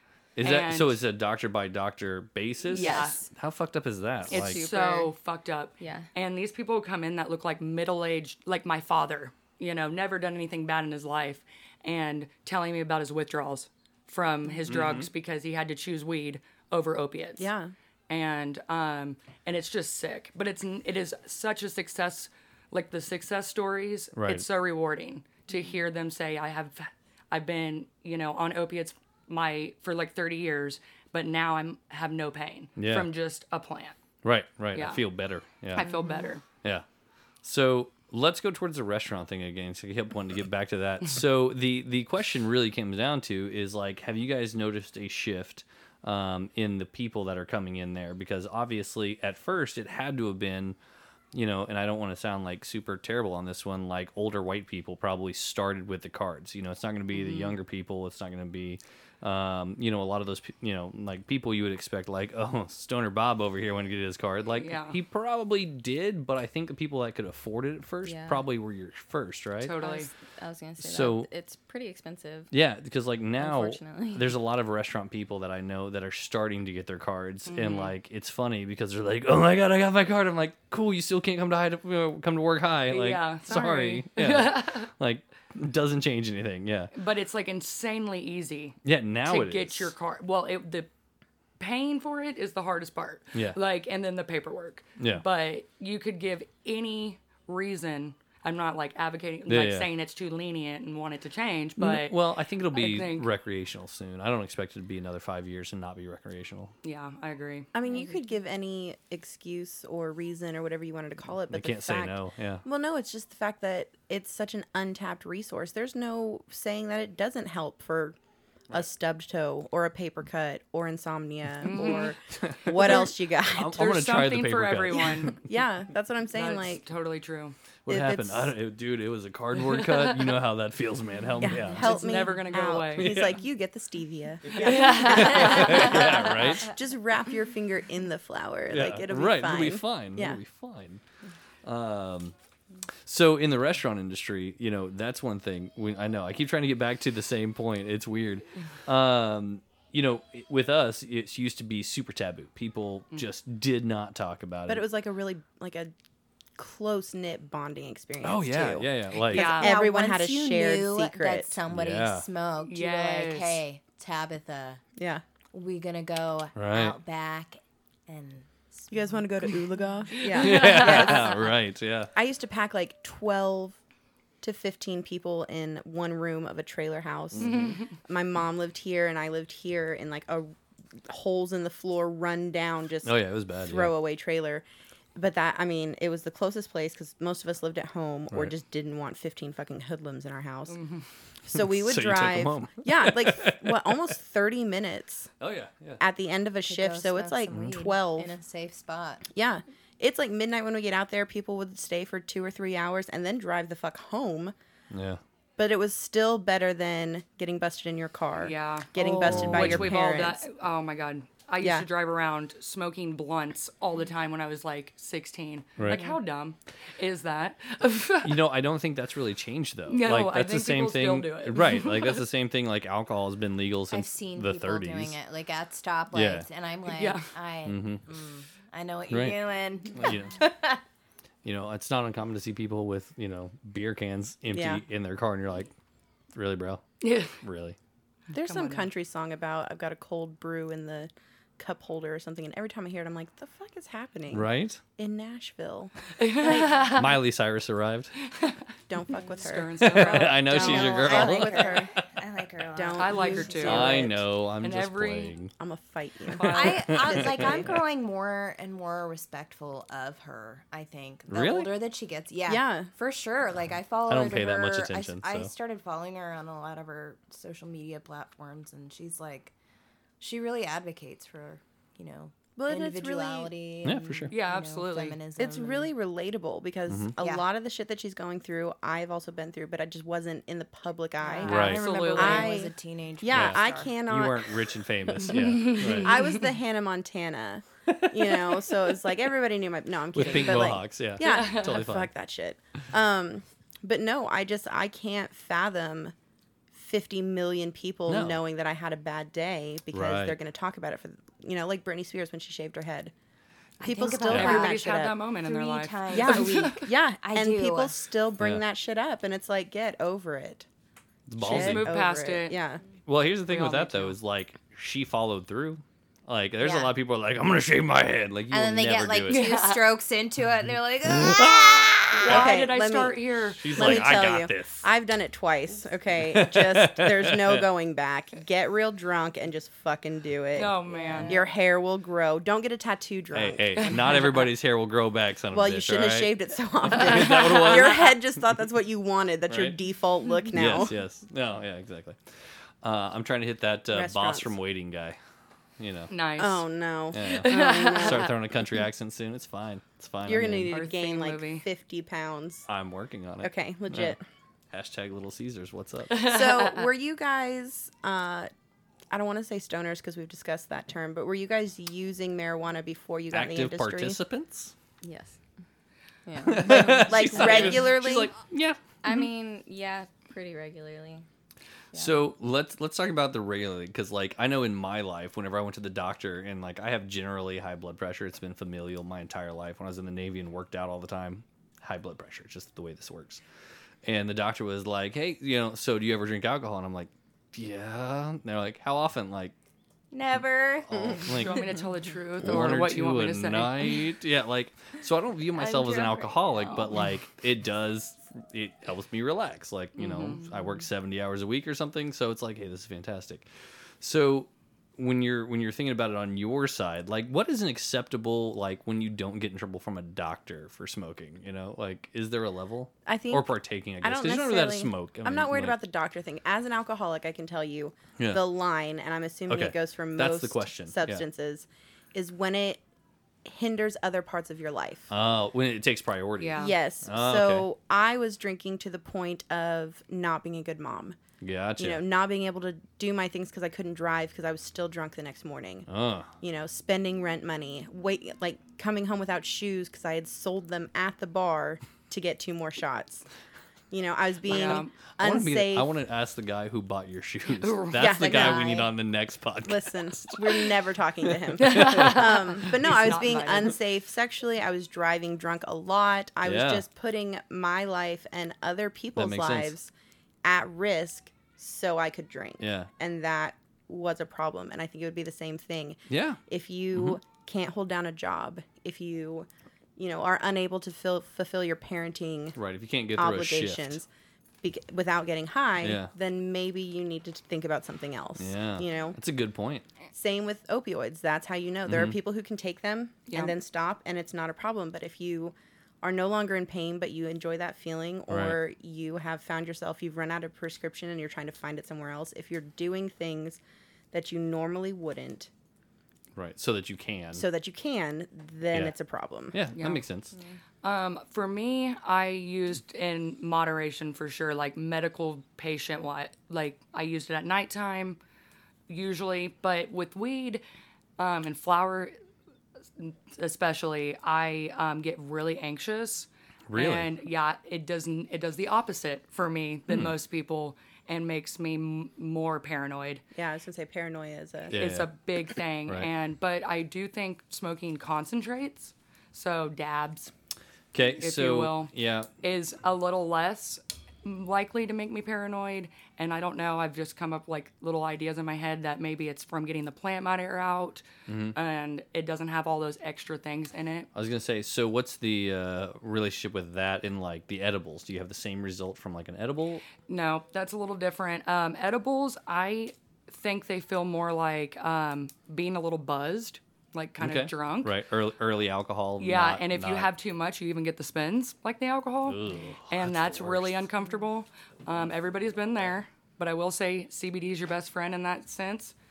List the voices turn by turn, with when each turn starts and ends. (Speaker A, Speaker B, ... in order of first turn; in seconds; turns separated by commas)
Speaker A: 0.4-4.6, Speaker B: 0.4-1.0, Speaker B: 2.7-3.2, Speaker C: 2.7-3.3, Speaker C: 4.3-5.1, Speaker B: 4.3-17.5, Speaker C: 5.8-6.1, Speaker A: 14.7-15.1, Speaker D: 17.4-17.7, Speaker B: 18.1-34.0, Speaker A: 24.1-24.4, Speaker A: 32.8-33.1, Speaker A: 34.2-35.9, Speaker B: 34.8-35.0, Speaker B: 35.8-36.4, Speaker C: 35.8-36.2, Speaker A: 37.4-50.8, Speaker A: 51.3-69.7, Speaker B: 57.1-57.6, Speaker B: 64.5-65.0, Speaker C: 68.0-68.4, Speaker B: 69.6-70.1, Speaker C: 69.8-72.5, Speaker A: 70.8-71.3, Speaker A: 72.5-86.9, Speaker C: 73.4-74.3, Speaker B: 77.5-78.0, Speaker B: 82.9-84.9, Speaker B: 86.9-90.9, Speaker A: 88.8-89.9, Speaker B: 91.6-103.3, Speaker A: 95.0-95.2, Speaker A: 99.5-99.9, Speaker A: 101.8-106.7, Speaker B: 106.8-107.7, Speaker D: 107.7-118.2, Speaker C: 107.9-108.2, Speaker A: 111.5-112.6, Speaker D: 118.7-124.0, Speaker B: 121.6-122.2, Speaker A: 122.4-125.4, Speaker B: 123.8-125.4, Speaker D: 125.4-126.8, Speaker B: 126.3-127.6, Speaker A: 127.9-132.1, Speaker D: 127.9-128.5, Speaker B: 129.5-130.4, Speaker D: 131.4-140.4, Speaker B: 131.7-133.2, Speaker A: 132.9-133.4, Speaker A: 134.5-136.7, Speaker B: 134.5-136.0, Speaker A: 138.7-141.0, Speaker A: 141.6-142.3, Speaker A: 143.1-154.8, Speaker D: 154.7-155.9, Speaker D: 156.6-161.6, Speaker A: 158.2-159.6, Speaker B: 159.3-159.7, Speaker E: 159.4-164.8, Speaker A: 161.7-162.3, Speaker B: 162.6-163.6, Speaker D: 165.0-165.2, Speaker E: 165.5-169.0, Speaker A: 166.6-167.0, Speaker D: 168.9-171.4, Speaker B: 170.2-171.1, Speaker A: 170.3-172.1, Speaker D: 172.2-173.8, Speaker D: 174.4-180.6, Speaker A: 177.4-177.7, Speaker B: 177.4-177.9, Speaker D: 181.1-184.6, Speaker A: 183.0-183.9, Speaker D: 185.2-190.8, Speaker B: 190.7-191.1, Speaker D: 191.4-195.3, Speaker A: 191.6-194.1, Speaker A: 195.4-196.0, Speaker D: 196.0-198.3, Speaker E: 196.7-199.3, Speaker D: 199.3-204.5, Speaker A: 204.9-205.2, Speaker D: 205.6-210.4, Speaker B: 208.4-218.4, Speaker E: 209.0-209.5, Speaker A: 209.2-210.1, Speaker D: 211.6-211.9, Speaker A: 218.2-225.2, Speaker B: 219.9-222.2, Speaker E: 223.9-230.8, Speaker A: 226.1-226.5, Speaker B: 226.9-227.3, Speaker A: 227.7-228.0, Speaker A: 229.1-229.4, Speaker A: 229.9-230.5, Speaker A: 231.4-235.7, Speaker D: 234.5-234.8, Speaker A: 236.3-237.8, Speaker B: 237.0-237.4, Speaker D: 238.3-246.7, Speaker B: 238.3-238.9, Speaker A: 244.3-244.8, Speaker B: 246.2-247.2, Speaker A: 246.9-248.1, Speaker D: 248.9-251.9, Speaker B: 249.4-250.4, Speaker A: 249.8-252.0, Speaker E: 250.4-253.9, Speaker D: 252.8-254.2, Speaker B: 253.0-255.3, Speaker A: 253.7-255.5, Speaker D: 255.6-257.0, Speaker B: 256.3-257.3, Speaker E: 256.5-269.5, Speaker A: 256.7-257.8, Speaker A: 261.3-261.7, Speaker D: 262.5-262.9, Speaker A: 264.1-265.5, Speaker E: 270.2-275.9, Speaker D: 272.6-273.5, Speaker A: 273.8-274.3, Speaker B: 274.3-275.2, Speaker D: 275.4-296.1, Speaker A: 276.9-277.1, Speaker E: 277.2-277.4, Speaker E: 281.2-284.0, Speaker B: 281.4-282.6, Speaker A: 281.5-281.9, Speaker A: 283.3-286.2, Speaker B: 285.3-286.3, Speaker A: 290.1-292.1, Speaker B: 291.2-291.9, Speaker D: 296.7-303.1, Speaker A: 298.1-298.4, Speaker A: 299.9-300.4, Speaker E: 303.8-304.9, Speaker D: 303.8-305.1, Speaker A: 304.3-304.6, Speaker B: 304.3-306.9, Speaker E: 305.4-307.9, Speaker D: 306.1-310.7, Speaker A: 311.3-311.9, Speaker D: 311.4-312.8, Speaker B: 311.4-312.6, Speaker A: 313.1-319.4, Speaker B: 313.5-314.2, Speaker E: 316.6-316.9, Speaker E: 318.5-322.3, Speaker B: 319.3-319.9, Speaker A: 321.0-322.6, Speaker B: 322.2-324.3, Speaker D: 322.3-333.7, Speaker A: 323.6-324.9, Speaker A: 326.2-327.6, Speaker B: 330.6-331.3, Speaker E: 331.0-331.5, Speaker A: 333.3-336.3, Speaker B: 333.8-334.5, Speaker D: 335.5-341.0, Speaker A: 336.8-338.2, Speaker B: 337.0-337.9, Speaker A: 339.5-339.8, Speaker A: 340.5-342.2, Speaker A: 342.8-345.2, Speaker D: 343.9-344.6, Speaker A: 345.8-346.1, Speaker B: 346.1-346.7, Speaker D: 346.4-348.3, Speaker A: 347.1-350.7, Speaker B: 347.2-348.3, Speaker D: 350.3-352.7, Speaker B: 350.7-351.6, Speaker A: 352.7-354.1, Speaker D: 353.4-354.2, Speaker A: 354.7-356.3, Speaker B: 356.1-356.9, Speaker D: 356.1-358.5, Speaker D: 359.1-364.2, Speaker A: 363.3-364.7, Speaker C: 365.0-365.4, Speaker C: 366.3-367.8, Speaker A: 366.4-369.3, Speaker D: 366.7-368.3, Speaker C: 369.0-371.2, Speaker A: 371.9-383.4, Speaker A: 384.0-389.6, Speaker E: 390.1-391.5, Speaker A: 390.9-391.7, Speaker B: 391.3-394.0, Speaker A: 392.4-403.5, Speaker E: 395.6-397.0, Speaker B: 400.0-400.5, Speaker A: 404.0-415.8, Speaker D: 413.1-413.5, Speaker D: 414.0-422.8, Speaker A: 419.5-421.2, Speaker D: 423.5-425.1, Speaker A: 425.1-427.7, Speaker B: 426.4-426.8, Speaker D: 426.6-431.2, Speaker A: 431.4-432.0, Speaker D: 431.8-435.9, Speaker A: 435.9-436.3, Speaker D: 436.4-443.2, Speaker D: 443.9-445.9, Speaker B: 444.5-444.9, Speaker A: 445.2-450.6, Speaker B: 447.6-448.7, Speaker D: 447.9-448.9, Speaker D: 449.6-459.9, Speaker A: 451.5-452.3, Speaker B: 451.6-453.8, Speaker A: 456.4-456.8, Speaker A: 459.1-459.7, Speaker D: 460.4-472.6, Speaker A: 462.6-462.9, Speaker A: 466.1-466.4, Speaker A: 472.6-474.0, Speaker D: 473.1-474.1, Speaker D: 474.6-479.2, Speaker A: 475.8-476.1, Speaker A: 478.4-479.9, Speaker D: 480.1-493.6, Speaker A: 481.9-482.2, Speaker B: 483.3-483.6, Speaker A: 488.3-488.6, Speaker D: 494.1-495.5, Speaker A: 496.4-497.4, Speaker D: 497.3-499.6, Speaker A: 499.5-500.3, Speaker B: 499.8-500.0, Speaker B: 500.8-508.2, Speaker B: 508.9-510.6, Speaker B: 511.2-512.1, Speaker B: 513.0-523.2, Speaker A: 516.7-517.1, Speaker D: 523.4-524.8, Speaker A: 524.7-525.1, Speaker B: 524.7-530.3, Speaker A: 530.9-532.3, Speaker B: 531.2-544.1, Speaker A: 541.3-541.6, Speaker A: 544.1-549.9, Speaker B: 550.1-558.0, Speaker A: 557.2-560.1, Speaker B: 559.2-568.9, Speaker A: 562.2-563.9